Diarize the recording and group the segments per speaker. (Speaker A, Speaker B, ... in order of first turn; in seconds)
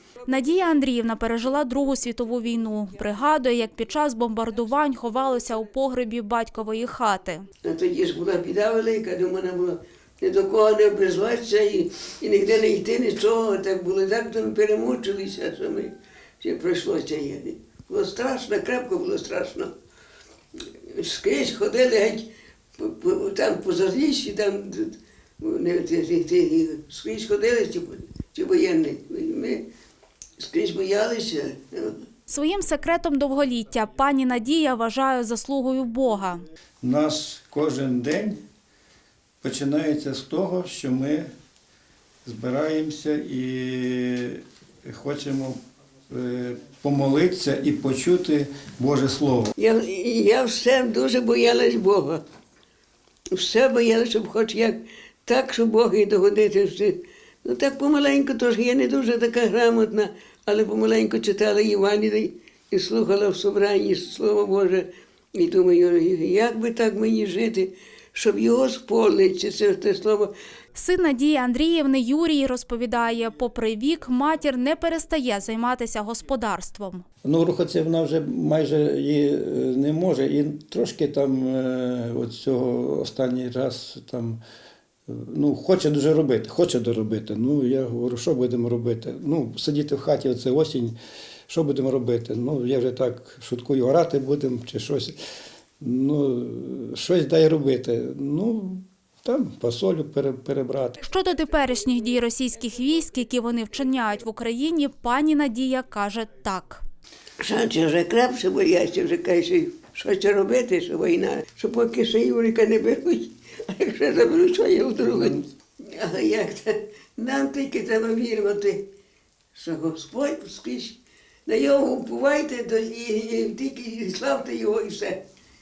Speaker A: 0.3-7.5, 32.3-36.4, 70.7-77.0, 101.0-106.8
Speaker B: 7.6-19.7, 20.8-22.2, 22.8-29.6, 30.4-32.0, 49.6-52.2, 53.3-70.3, 107.4-118.8, 119.5-125.2
Speaker C: 36.8-38.4, 39.4-41.3, 42.2-49.5, 77.2-84.4, 85.1-91.0, 91.5-95.2, 95.8-101.0, 115.1-115.4